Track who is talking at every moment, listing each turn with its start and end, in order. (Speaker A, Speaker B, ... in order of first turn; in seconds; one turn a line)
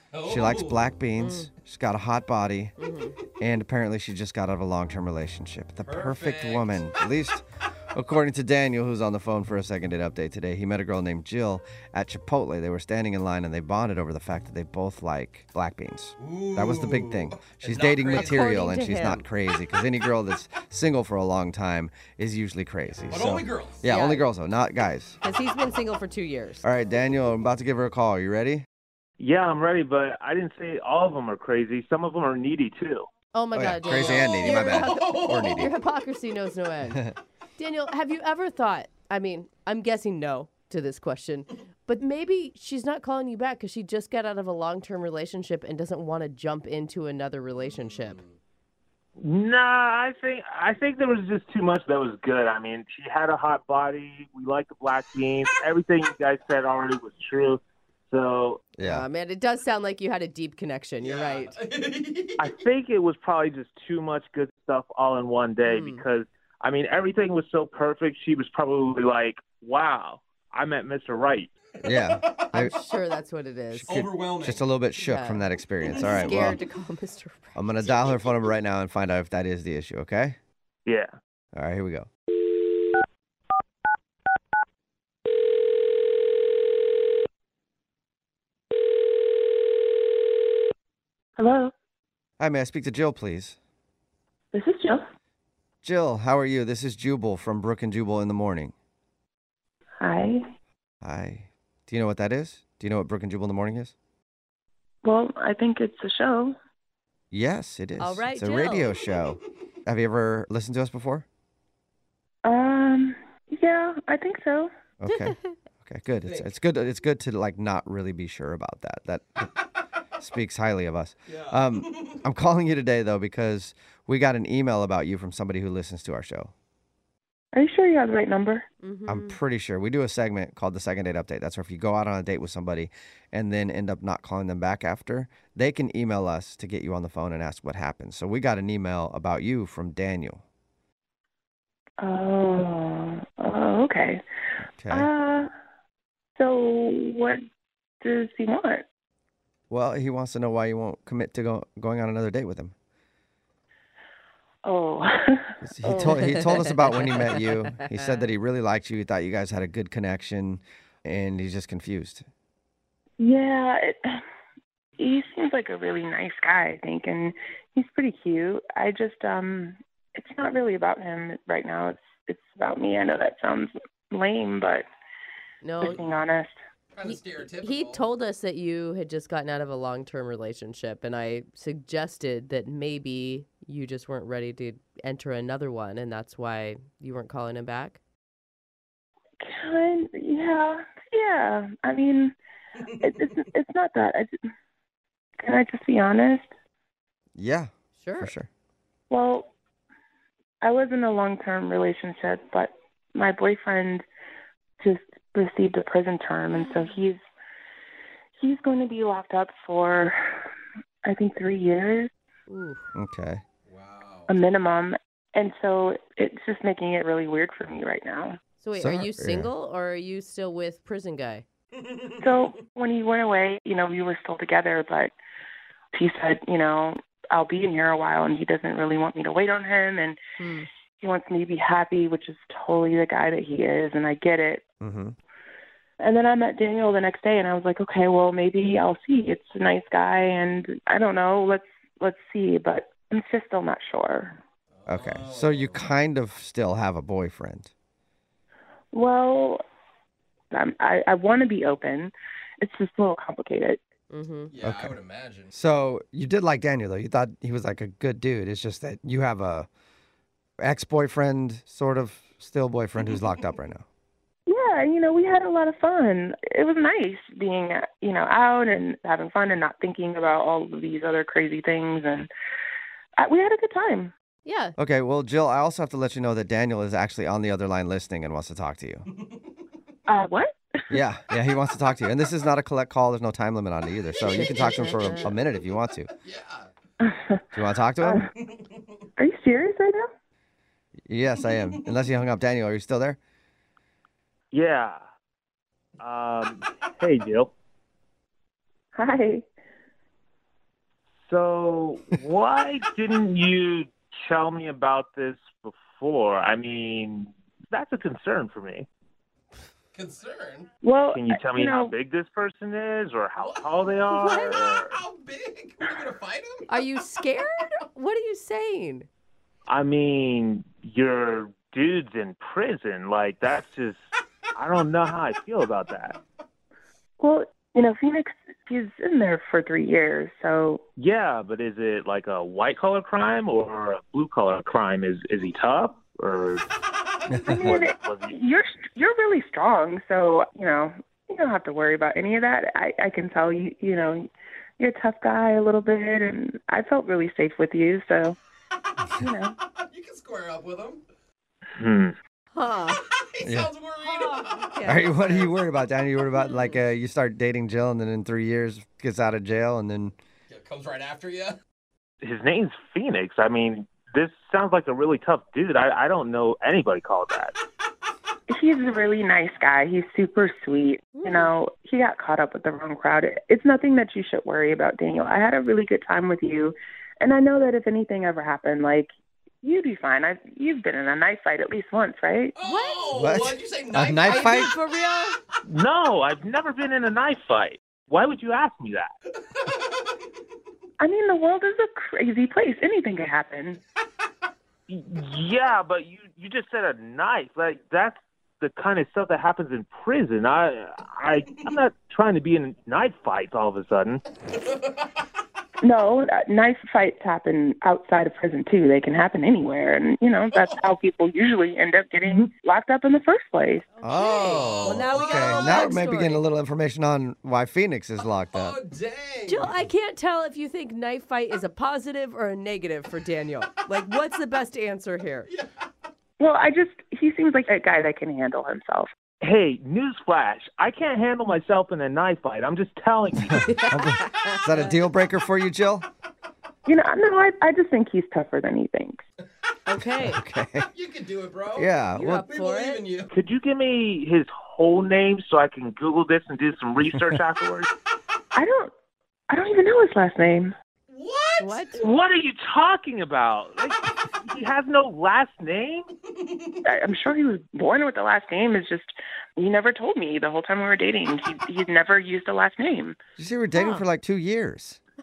Speaker A: 0.1-0.9
Speaker B: 0.2-2.8
Speaker C: 1.2-1.5
Speaker C: 2.8-3.1
Speaker B: 3.4-7.4
Speaker A: 5.8-6.8
Speaker B: 7.9-25.2
Speaker A: 16.2-18.6
Speaker C: 18.1-19.2
Speaker A: 23.1-23.9
Speaker C: 23.9-24.2
Speaker C: 25.2-26.6
Speaker B: 26.6-28.6
Speaker D: 29.2-33.1
Speaker C: 33.3-35.1
Speaker B: 33.5-35.7
Speaker A: 33.7-35.7
Speaker C: 35.6-37.0
Speaker C: 37.6-48.1
Speaker A: 47.6-48.4
Speaker D: 49.2-58.6
Speaker B: 58.8-59.0
Speaker C: 58.9-61.6
Speaker A: 61.0-62.7
Speaker D: 62.4-71.5
Speaker C: 65.6-66.0
Speaker A: 71.8-72.8
Speaker B: 71.8-72.8
Speaker C: 72.6-73.9
Speaker B: 73.7-76.6
Speaker A: 73.8-74.7
Speaker C: 75.0-75.4
Speaker A: 75.8-76.6
Speaker C: 76.3-77.6
Speaker B: 77.6-80.4
Speaker A: 77.9-78.4
Speaker D: 80.9-81.1
Speaker B: 81.5-82.1
Speaker E: 91.4-91.7
Speaker B: 92.4-93.6
Speaker E: 94.5-95.0
Speaker B: 95.8-98.7
Speaker E: 100.0-100.4
Speaker B: 101.0-103.9
Speaker E: 105.0-106.5
Speaker B: 107.3-111.3
Speaker C: 108.0-108.9
Speaker E: 112.4-114.7
Speaker B: 115.0-119.5
Speaker A: 116.2-116.5
Speaker B: 120.2-126.5
Speaker A: 121.3-122.2
Speaker E: 127.5-128.7
Speaker C: 128.8-129.4
Speaker B: 129.1-140.4
Speaker E: 142.0-144.2
Speaker B: 144.8-145.1
Speaker E: 144.9-145.5
Speaker E: 146.4-147.4
Speaker E: 148.0-148.8
Speaker B: 149.7-152.8
Speaker E: 154.6-156.6
Speaker B: 155.6-162.3
Speaker E: 163.2-164.2
Speaker E: 165.0-174.9
Speaker C: 175.6-176.0
Speaker E: 175.8-176.5
Speaker A: 176.9-178.1
Speaker C: 177.7-188.0
Speaker E: 189.4-192.3
Speaker E: 193.0-194.3
Speaker E: 195.4-196.5
Speaker B: 197.4-198.5
Speaker C: 198.0-198.3
Speaker E: 199.1-199.5
Speaker E: 200.6-204.1
Speaker E: 204.8-207.2
Speaker C: 206.6-207.0
Speaker E: 208.4-210.4
Speaker E: 211.1-212.1
Speaker C: 212.5-212.9
Speaker B: 212.9-213.4
Speaker A: 213.7-214.3
Speaker E: 214.3-218.4
Speaker C: 218.6-221.4
Speaker B: 218.8-219.5
Speaker A: 221.8-222.6
Speaker E: 222.2-225.1
Speaker E: 225.9-230.2
Speaker C: 230.4-230.7
Speaker E: 231.0-234.6
Speaker B: 234.8-235.2
Speaker E: 236.0-244.4
Speaker A: 244.7-245.8
Speaker B: 244.9-247.7
Speaker E: 248.9-249.6
Speaker E: 250.5-253.8
Speaker C: 254.1-254.5
Speaker A: 254.5-255.5
Speaker B: 254.6-255.0
Speaker B: 255.5-259.7
Speaker B: 260.6-263.9
Speaker E: 264.5-272.3
Speaker E: 273.2-274.1
Speaker C: 274.4-274.7
Speaker B: 274.8-279.1
Speaker A: 279.1-279.6
Speaker E: 280.1-281.0
Speaker B: 280.9-286.1
Speaker A: 284.1-284.8
Speaker C: 284.3-285.3
Speaker A: 286.2-286.7
Speaker E: 287.0-287.4
Speaker B: 287.5-288.3
Speaker A: 288.4-289.0
Speaker E: 289.2-290.1
Speaker B: 291.1-293.2
Speaker A: 291.4-292.0
Speaker D: 294.5-295.0
Speaker D: 296.0-297.5
Speaker E: 298.9-299.5
Speaker D: 301.3-308.9
Speaker A: 309.9-310.7
Speaker E: 310.8-312.0
Speaker D: 311.1-315.0
Speaker A: 313.4-316.7
Speaker E: 314.1-314.5
Speaker C: 316.7-319.1
Speaker D: 319.7-324.0
Speaker D: 324.6-326.2
Speaker E: 327.2-330.8
Speaker D: 331.0-336.6
Speaker B: 337.3-337.8
Speaker E: 337.5-348.4
Speaker D: 337.5-338.4
Speaker E: 349.1-349.6
Speaker A: 349.9-351.0
Speaker D: 351.8-352.1
Speaker C: 352.5-352.9
Speaker A: 352.7-356.6
Speaker B: 353.4-353.7
Speaker B: 354.8-360.1
Speaker A: 360.5-361.6
Speaker D: 362.2-367.5
Speaker E: 368.5-379.1
Speaker C: 371.1-371.4
Speaker E: 379.6-382.6
Speaker A: 382.6-384.7
Speaker C: 382.6-382.9
Speaker B: 383.1-384.7
Speaker C: 384.3-385.4
Speaker D: 385.7-389.1
Speaker A: 389.6-390.0
Speaker E: 391.0-393.8
Speaker D: 394.9-404.2
Speaker A: 404.5-405.1
Speaker E: 405.8-413.9
Speaker A: 410.5-410.8
Speaker C: 414.0-416.4
Speaker B: 414.0-418.8
Speaker A: 414.1-416.0
Speaker A: 418.5-419.9
Speaker C: 419.6-425.4
Speaker A: 425.4-425.7
Speaker E: 426.4-429.1
Speaker D: 429.4-433.6
Speaker B: 433.5-436.1
Speaker C: 433.7-434.6
Speaker E: 436.9-439.2
Speaker C: 439.9-440.4
Speaker B: 440.2-440.9
Speaker A: 440.9-443.3
Speaker B: 441.8-442.5
Speaker C: 442.1-443.0
Speaker D: 443.3-447.9
Speaker E: 448.6-448.9
Speaker E: 449.5-450.7
Speaker A: 451.1-452.0
Speaker D: 452.0-456.1
Speaker A: 456.3-456.9
Speaker E: 456.9-463.2
Speaker B: 463.4-465.0
Speaker C: 463.7-464.0